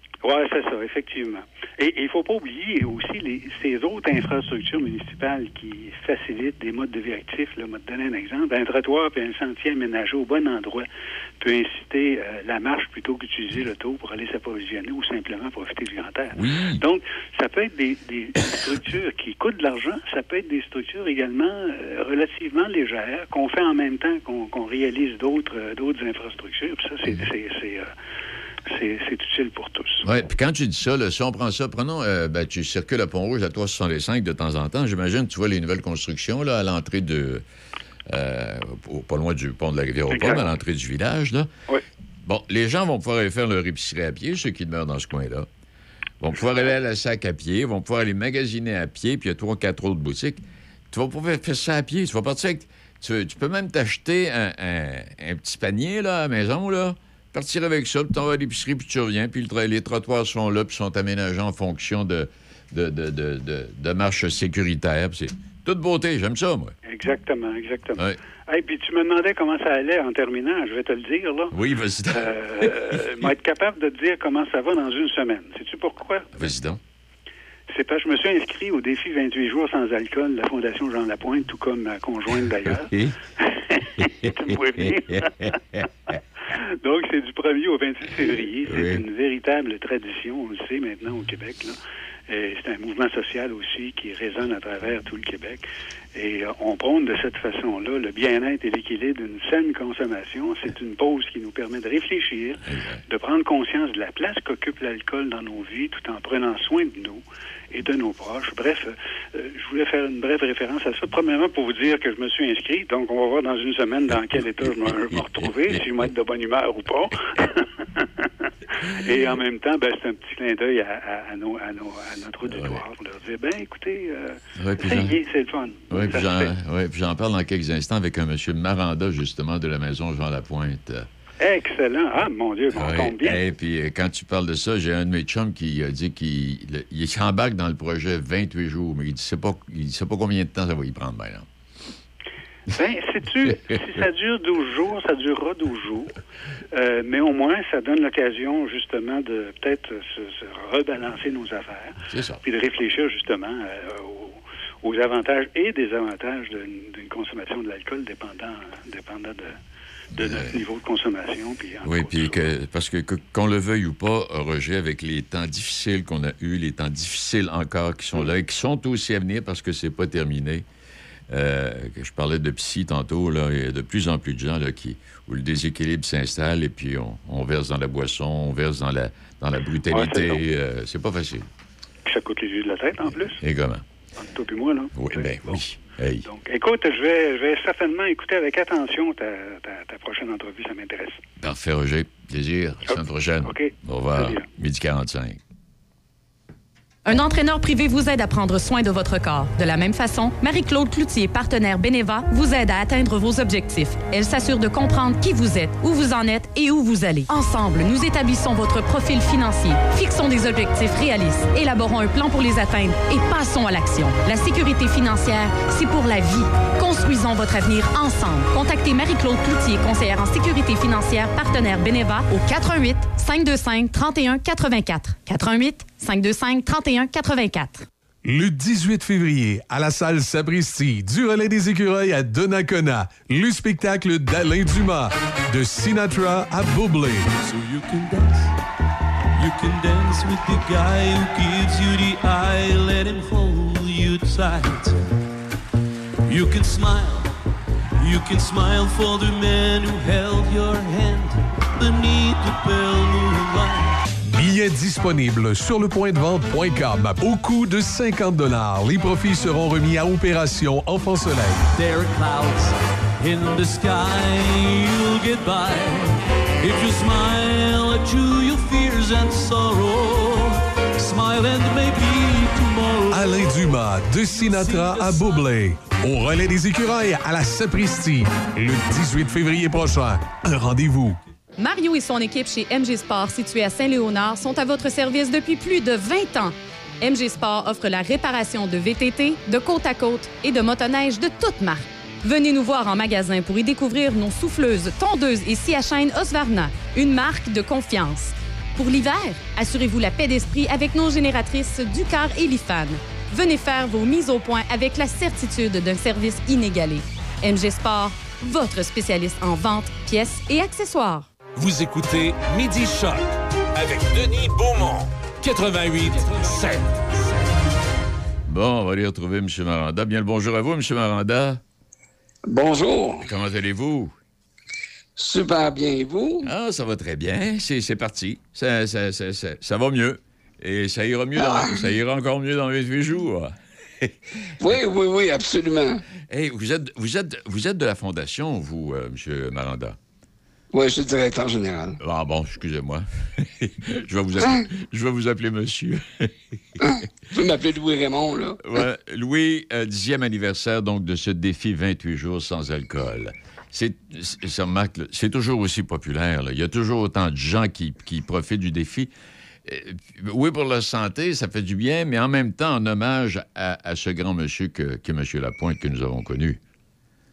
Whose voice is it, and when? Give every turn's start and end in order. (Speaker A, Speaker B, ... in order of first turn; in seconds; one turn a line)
Speaker A: 0.2-10.9
Speaker A: 11.4-27.9
Speaker B: 16.4-16.8
Speaker A: 28.7-30.1
Speaker B: 30.0-37.4
Speaker B: 38.1-41.5
Speaker A: 40.1-40.5
Speaker B: 42.2-45.5
Speaker B: 46.2-66.7
Speaker A: 66.9-71.5
Speaker B: 71.5-73.0
Speaker A: 72.1-76.3
Speaker B: 76.4-76.8
Speaker A: 77.7-85.5
Speaker B: 82.8-83.2
Speaker B: 84.9-85.3
Speaker A: 86.5-126.5
Speaker B: 88.7-89.0
Speaker B: 102.7-103.0
Speaker B: 114.7-116.1
Speaker B: 122.5-122.8
Speaker B: 124.6-125.2
Speaker B: 125.9-131.1
Speaker A: 131.4-133.4
Speaker B: 132.7-141.5
Speaker A: 142.7-146.1
Speaker A: 146.7-159.6
Speaker B: 152.1-152.4
Speaker A: 160.2-162.4
Speaker B: 160.2-160.6
Speaker B: 161.8-170.7
Speaker B: 171.3-181.5
Speaker A: 179.9-180.4
Speaker A: 182.1-183.4
Speaker B: 183.4-183.8
Speaker A: 184.2-185.6
Speaker B: 184.9-186.3
Speaker A: 186.2-191.2
Speaker B: 191.4-195.4
Speaker A: 192.9-194.5
Speaker C: 197.1-227.9
Speaker D: 228.2-237.3
Speaker E: 237.4-238.5
Speaker E: 239.4-245.0
Speaker E: 246.3-247.3
Speaker E: 248.0-253.9
Speaker D: 254.3-261.7
Speaker E: 261.7-273.4
Speaker D: 273.1-281.2
Speaker E: 274.3-275.4
Speaker C: 281.6-311.3
Speaker F: 311.6-317.6
Speaker B: 318.5-321.6
Speaker G: 322.5-323.3
Speaker B: 323.2-324.1
Speaker G: 325.2-326.5
Speaker B: 326.4-334.2
Speaker G: 331.4-331.8
Speaker G: 334.6-336.0
Speaker B: 336.3-340.0
Speaker G: 340.7-342.0
Speaker B: 342.0-346.3
Speaker G: 346.8-348.8
Speaker B: 348.6-359.1
Speaker B: 359.7-366.6